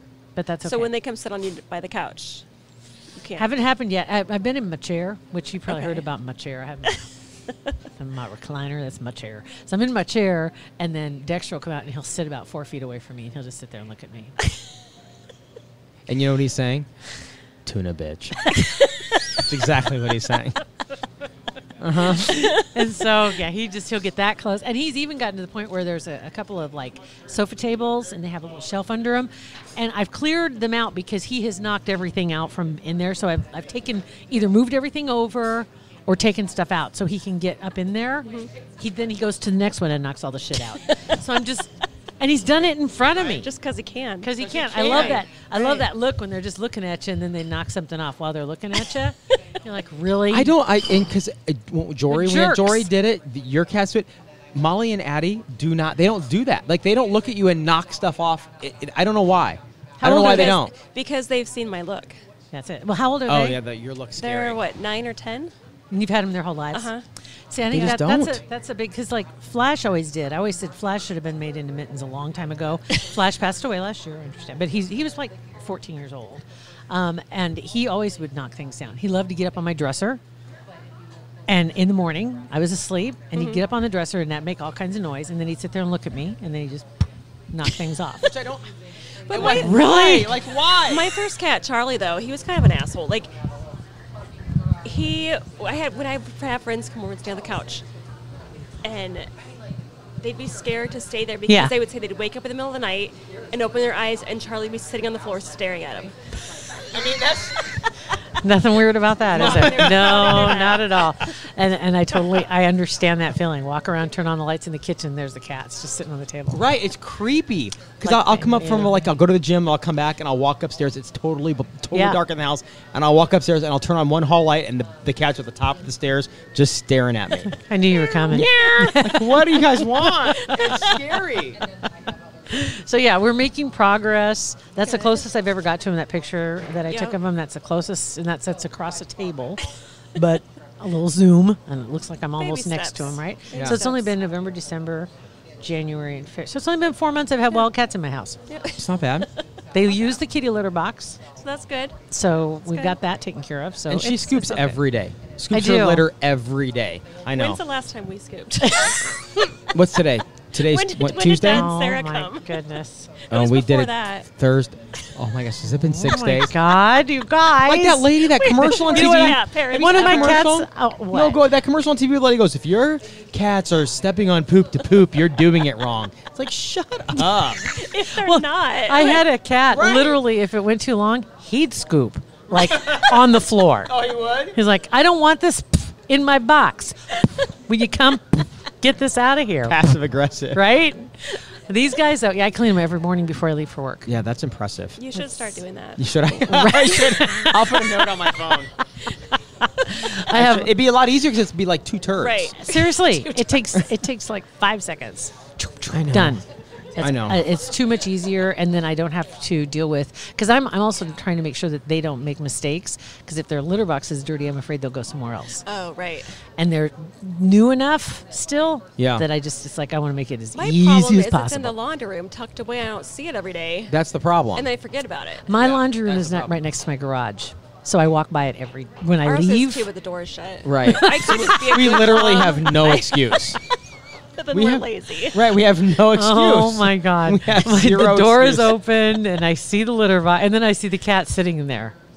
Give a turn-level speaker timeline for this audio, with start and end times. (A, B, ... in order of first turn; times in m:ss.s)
0:00.4-0:00.9 A
0:00.6-0:02.4 B
0:03.2-0:03.5 B
0:03.4-0:07.1 A
0:05.7-0:06.0 B
0:07.9-0:14.4 A
0:16.1-0:16.9 C
0:17.6-0:18.4 C
0:19.4-0:20.6 C
0:21.8-0:22.3 C
0:22.0-0:43.5 A
0:38.2-0:38.5 B
0:43.4-0:45.9 B
0:44.2-0:50.6 A
0:44.4-0:45.2 C
0:50.3-1:00.7 C
0:52.1-0:52.9 A
1:00.0-1:00.5 A
1:00.0-1:02.2 B
1:02.5-1:03.6 A
1:03.3-1:04.6 C
1:04.2-1:05.5 B
1:05.9-1:06.9 A
1:06.7-1:07.0 B
1:07.5-1:20.2 A
1:07.7-1:08.4 C
1:21.5-1:26.9 A
1:23.3-1:23.6 B
1:27.5-1:28.3 A
1:28.2-1:28.7 C
1:29.3-1:30.2 B
1:29.3-1:31.1 C
1:29.4-1:30.4 A
1:30.8-1:33.3 B
1:34.8-1:37.8 B
1:38.8-1:39.3 B
1:40.2-1:46.2 B
1:41.5-1:41.8 A
1:46.9-1:48.0 C
1:48.4-1:56.7 A
1:49.3-1:50.6 C
1:49.4-1:51.0 B
1:56.5-2:07.6 C
1:58.0-1:59.1 A
2:01.9-2:02.2 A
2:07.6-2:10.9 A
2:08.3-2:11.6 C
2:12.5-2:25.1 A
2:14.8-2:15.2 B
2:16.9-2:17.2 B
2:22.4-2:24.1 B
2:25.6-2:28.4 A
2:28.5-2:29.3 B
2:28.7-2:29.3 C
2:29.7-2:31.2 A
2:31.4-2:32.0 B
2:32.1-2:34.8 A
2:32.7-2:33.0 B
2:33.9-2:37.6 C
2:35.5-2:36.1 A
2:37.3-2:39.4 B
2:38.6-2:39.1 A
2:39.7-2:41.7 C
2:40.6-2:42.6 B
2:41.5-2:43.1 A
2:43.2-2:44.3 B
2:43.3-2:46.5 C
2:45.8-2:49.4 A
2:47.6-2:57.7 C
2:48.6-2:50.5 B
2:49.9-2:51.4 A
2:57.7-2:59.3 B
2:57.9-3:04.0 A
2:59.7-3:00.2 C
3:02.5-3:03.2 C
3:03.9-3:04.6 C
3:04.5-3:09.8 A
3:09.6-3:10.6 C
3:10.5-3:14.2 A
3:14.1-3:15.0 C
3:15.0-3:16.1 B
3:15.1-3:15.6 A
3:16.0-3:18.7 C
3:16.4-3:18.2 A
3:19.7-3:20.7 A
3:20.3-3:22.6 C
3:22.2-3:23.6 B
3:22.6-3:26.4 A
3:25.9-3:26.4 C
3:27.0-3:35.6 A
3:27.0-3:27.4 C
3:35.6-3:36.3 B
3:36.6-3:41.8 A
3:39.0-3:39.2 C
3:40.6-3:44.0 B
3:43.9-3:44.7 C
3:44.5-3:45.6 B
3:45.5-3:49.9 A
3:45.6-3:46.5 C
3:49.2-3:53.6 B
3:50.6-3:53.6 C
3:50.8-3:51.6 A
3:54.4-3:55.5 B
3:54.5-3:58.8 C
3:56.1-4:02.0 A